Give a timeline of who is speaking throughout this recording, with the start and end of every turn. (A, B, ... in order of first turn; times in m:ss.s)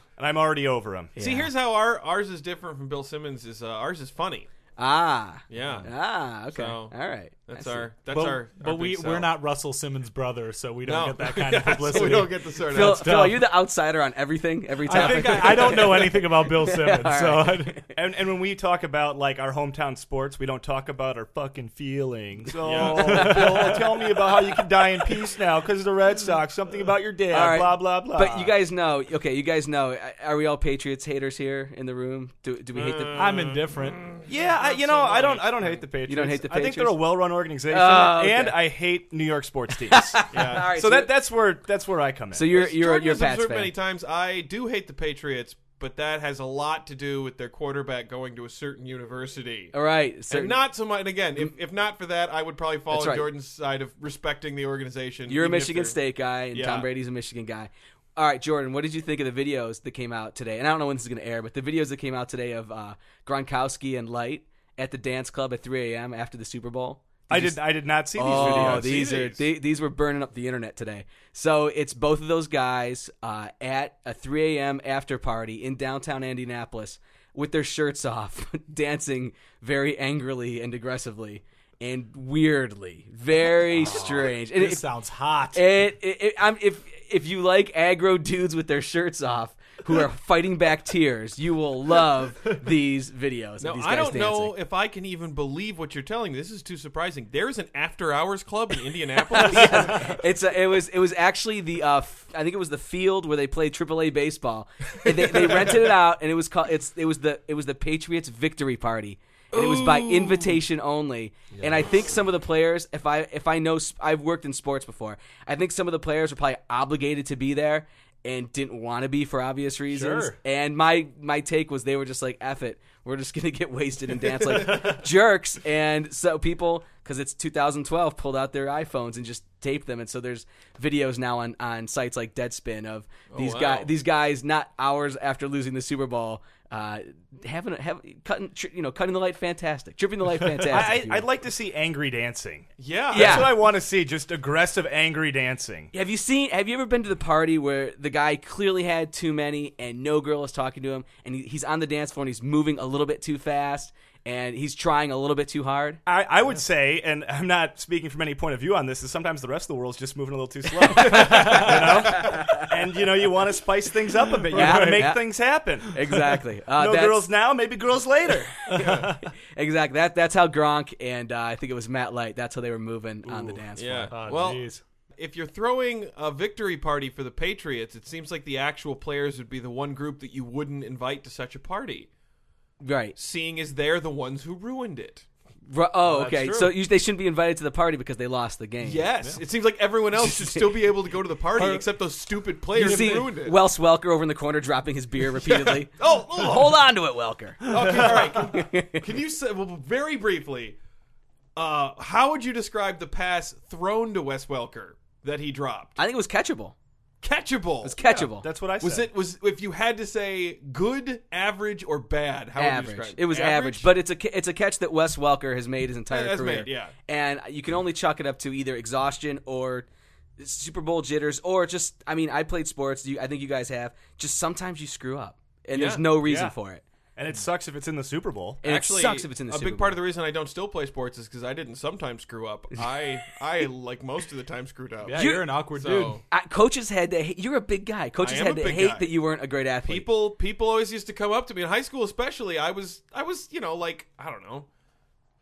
0:00.2-0:01.1 A
0:01.2-0:01.5 B
0:01.2-0:04.5 C
0:04.8-0:07.9 B
0:05.5-0:05.9 C
0:06.5-0:09.3 C
0:08.1-0:13.4 D
0:10.8-0:13.2 C
0:12.7-0:17.8 B
0:14.9-0:17.8 D
0:15.0-0:15.4 A
0:17.9-0:28.5 A
0:22.6-0:23.3 C
0:22.6-0:24.3 B
0:22.9-0:23.8 D
0:27.3-0:33.4 B
0:32.8-0:35.8 C
0:33.2-0:34.0 D
0:34.3-0:42.5 A
0:36.1-0:37.0 B
0:37.7-0:38.6 B
0:39.8-0:41.1 B
0:40.3-0:40.7 C
0:42.3-0:43.7 B
0:42.5-0:49.7 C
0:49.7-0:50.6 B
0:50.3-0:56.0 C
0:52.9-0:53.3 B
0:55.3-1:24.8 B
0:56.5-0:56.9 C
1:07.3-1:09.1 A
1:08.2-1:09.4 C
1:23.7-1:25.6 D
1:23.8-1:24.3 C
1:25.5-1:34.6 B
1:33.6-1:40.2 C
1:39.3-2:21.3 B
1:39.6-1:40.1 D
1:45.1-1:45.9 C
1:49.5-1:50.6 C
1:59.9-2:00.4 D
2:04.4-2:04.9 C
2:13.3-2:13.9 C
2:20.6-2:25.9 A
2:22.8-2:23.6 C
2:23.1-2:23.6 B
2:25.9-2:36.0 B
2:36.1-2:46.0 A
2:40.8-2:42.7 B
2:41.1-2:41.9 D
2:44.5-2:45.1 D
2:44.5-2:45.2 B
2:45.8-2:47.3 B
2:46.8-2:48.7 A
2:48.7-2:54.1 B
2:48.7-2:49.2 D
2:48.8-2:49.1 C
2:53.8-3:02.1 C
2:54.1-2:54.8 D
3:02.8-3:03.2 B
3:03.2-3:05.3 C
3:05.7-3:09.1 B
3:06.1-3:06.7 D
3:08.8-3:13.6 C
3:10.1-3:10.9 B
3:11.6-3:11.9 D
3:12.7-3:13.3 D
3:12.8-3:19.1 B
3:15.4-3:16.8 C
3:17.7-3:20.8 C
3:17.7-3:18.1 D
3:21.6-3:26.0 C
3:26.0-3:26.8 B
3:27.2-3:28.0 C
3:27.8-3:28.5 B
3:28.0-3:29.1 A
3:28.8-3:33.9 C
3:32.6-3:39.9 B
3:36.1-3:36.9 C
3:40.4-3:46.8 B
3:45.7-3:46.0 C
3:47.2-3:48.6 A
3:48.6-3:50.0 B
3:48.6-3:56.2 C
3:55.0-3:56.2 D
3:55.2-3:55.5 B
3:56.3-4:00.1 B
3:58.2-3:59.1 C
3:59.8-4:04.7 C